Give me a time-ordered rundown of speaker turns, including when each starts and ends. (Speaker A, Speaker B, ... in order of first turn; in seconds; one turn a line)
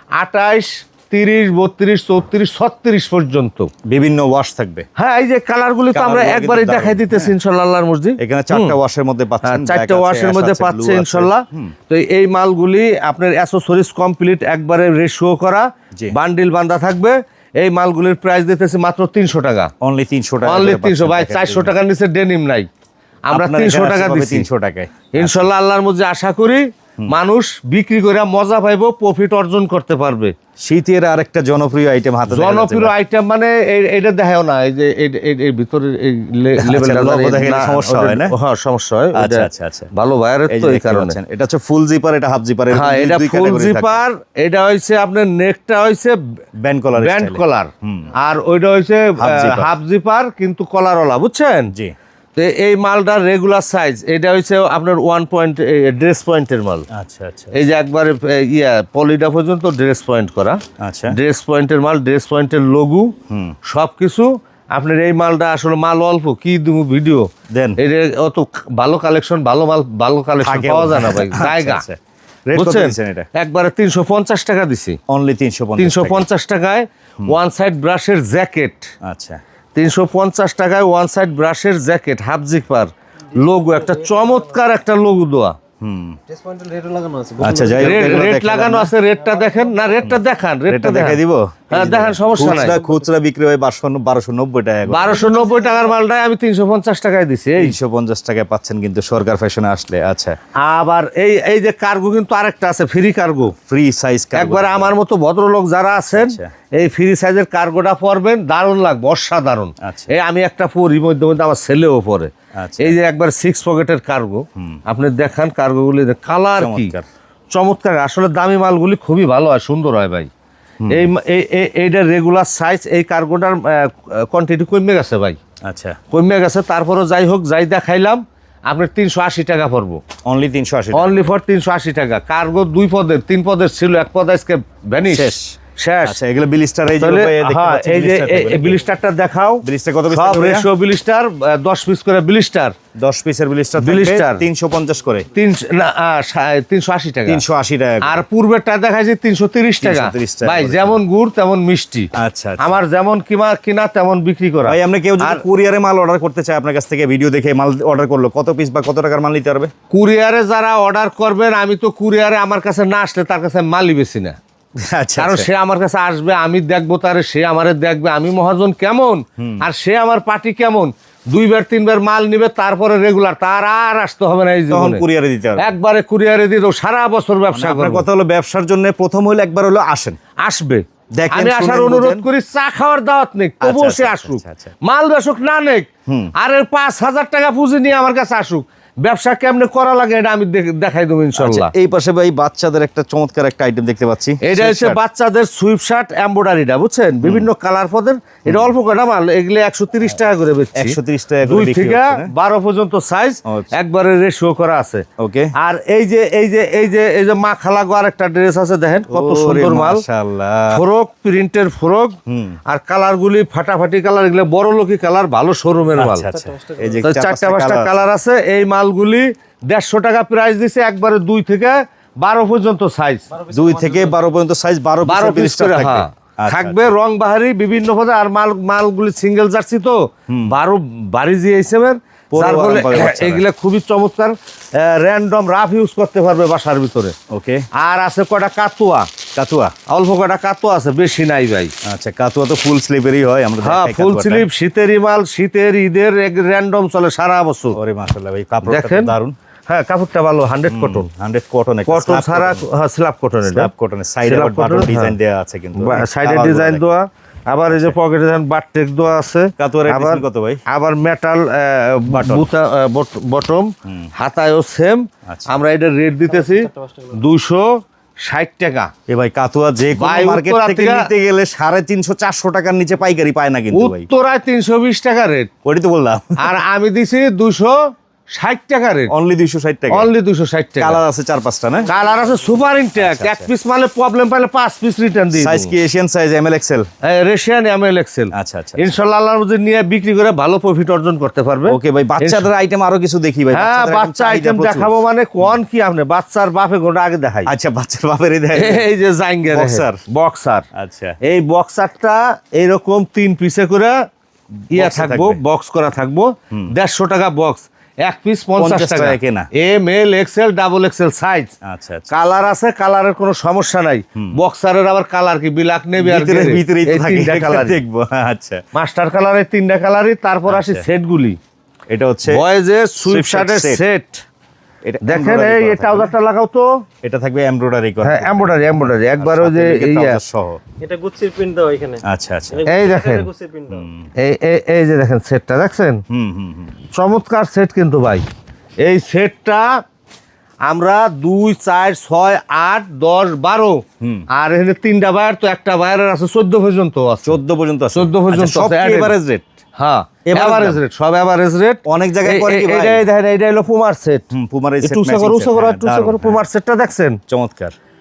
Speaker A: 0.2-3.7
Speaker B: 3.9-4.9
Speaker A: 5.0-8.8
Speaker B: 5.9-7.3
Speaker B: 8.2-11.8
Speaker A: 9.4-19.7
Speaker B: 19.8-21.7
Speaker A: 20.4-22.7
Speaker A: 23.3-24.5
Speaker B: 23.3-25.5
Speaker A: 25.1-30.3
Speaker B: 30.6-32.9
Speaker A: 32.3-41.2
Speaker B: 36.6-38.3
Speaker B: 39.1-39.9
Speaker B: 40.5-44.0
Speaker A: 42.7-46.2
Speaker B: 46.6-48.1
Speaker A: 47.0-51.7
Speaker B: 49.2-49.7
Speaker A: 52.4-56.9
Speaker B: 56.9-57.5
Speaker A: 57.5-71.8
Speaker B: 60.8-61.1
Speaker B: 63.3-63.6
Speaker B: 67.5-67.8
Speaker B: 70.4-73.3
Speaker A: 72.5-75.0
Speaker B: 75.1-76.2
Speaker A: 75.8-78.9
Speaker B: 79.0-79.4
Speaker A: 79.8-85.6
Speaker C: 83.4-84.5
Speaker B: 85.8-86.2
Speaker C: 86.3-88.3
Speaker B: 87.4-88.9
Speaker A: 87.8-92.8
Speaker C: 89.2-90.1
Speaker B: 90.7-95.3
Speaker C: 92.4-93.1
Speaker A: 94.9-97.8
Speaker C: 95.5-95.8
Speaker B: 97.6-100.4
Speaker A: 100.6-103.5
Speaker B: 103.6-104.9
Speaker A: 104.3-116.9
Speaker B: 105.9-106.5
Speaker B: 109.8-110.1
Speaker B: 112.5-113.0
Speaker B: 116.6-117.1
Speaker A: 117.5-120.3
Speaker B: 120.8-121.1
Speaker A: 120.9-125.4
Speaker B: 125.6-126.0
Speaker A: 126.1-130.0
Speaker B: 130.2-131.3
Speaker A: 130.9-136.2
Speaker B: 135.0-138.8
Speaker A: 137.0-142.8
Speaker B: 139.6-140.7
Speaker B: 142.9-145.3
Speaker A: 143.8-144.4
Speaker A: 145.3-147.4
Speaker B: 147.3-148.2
Speaker A: 148.0-155.4
Speaker B: 149.8-151.0
Speaker B: 152.1-152.8
Speaker B: 154.7-159.7
Speaker A: 159.9-164.4
Speaker B: 164.8-165.5
Speaker A: 165.2-175.0
Speaker B: 169.4-169.6
Speaker B: 174.7-175.8
Speaker A: 175.6-178.1
Speaker B: 177.5-180.2
Speaker A: 180.4-191.7
Speaker B: 181.1-182.3
Speaker B: 183.6-184.7
Speaker B: 186.1-186.3
Speaker B: 191.4-195.0
Speaker A: 194.4-205.1
Speaker B: 197.2-197.5
Speaker B: 198.5-198.7
Speaker B: 200.8-202.3
Speaker B: 205.2-205.5
Speaker A: 205.6-210.0
Speaker B: 209.1-210.8
Speaker A: 210.7-216.3
Speaker B: 212.3-212.6
Speaker B: 215.9-218.1
Speaker C: 216.3-217.1
Speaker A: 217.0-223.3
Speaker C: 223.3-224.2
Speaker B: 223.5-226.9
Speaker A: 225.1-237.2
Speaker B: 230.3-230.5
Speaker B: 232.3-233.4
Speaker B: 237.3-237.7
Speaker A: 237.8-239.1
Speaker B: 239.3-239.7
Speaker A: 239.9-241.7
Speaker B: 241.8-244.5
Speaker A: 243.6-247.8
Speaker B: 247.7-249.3
Speaker A: 248.7-249.1
Speaker A: 249.7-251.1
Speaker B: 250.7-252.6
Speaker A: 251.9-253.7
Speaker B: 253.4-256.9
Speaker A: 254.2-255.1
Speaker A: 255.8-268.9
Speaker B: 257.7-258.0
Speaker B: 259.6-260.6
Speaker B: 262.1-262.5
Speaker B: 263.9-264.1
Speaker B: 265.3-265.5
Speaker C: 266.3-267.2
Speaker B: 269.1-274.1
Speaker A: 270.0-271.1
Speaker A: 273.7-275.5
Speaker B: 275.6-276.5
Speaker A: 276.4-279.1
Speaker B: 279.1-280.1
Speaker A: 279.9-281.0
Speaker B: 280.8-281.9
Speaker A: 281.9-285.7
Speaker B: 282.9-283.5
Speaker B: 285.3-286.9
Speaker A: 287.0-292.5
Speaker B: 288.3-288.9
Speaker B: 291.7-295.5
Speaker A: 293.5-297.5
Speaker B: 297.5-298.9
Speaker A: 298.5-300.6
Speaker B: 299.5-300.0
Speaker B: 300.7-301.2
Speaker A: 301.2-304.0
Speaker A: 304.7-311.5
Speaker B: 304.7-305.4
Speaker B: 308.6-309.5
Speaker B: 311.6-312.2
Speaker A: 312.1-317.8
Speaker B: 316.0-318.6
Speaker A: 318.8-321.4
Speaker B: 320.5-320.9
Speaker B: 321.9-322.4
Speaker A: 322.3-324.2
Speaker B: 323.1-323.8
Speaker B: 324.9-326.1
Speaker A: 325.0-326.8
Speaker B: 327.0-330.6
Speaker A: 328.0-330.2
Speaker C: 330.8-333.9
Speaker B: 332.0-332.9
Speaker A: 332.7-333.3
Speaker B: 333.7-334.1
Speaker A: 334.2-336.0
Speaker B: 336.1-336.8
Speaker A: 336.9-338.2
Speaker A: 338.8-339.8
Speaker A: 340.7-347.4
Speaker B: 344.0-344.3
Speaker B: 347.2-349.5
Speaker A: 347.9-349.1
Speaker A: 349.8-354.3
Speaker B: 350.2-350.8
Speaker B: 351.9-353.1
Speaker B: 354.3-356.4
Speaker A: 354.8-357.2
Speaker B: 357.3-357.8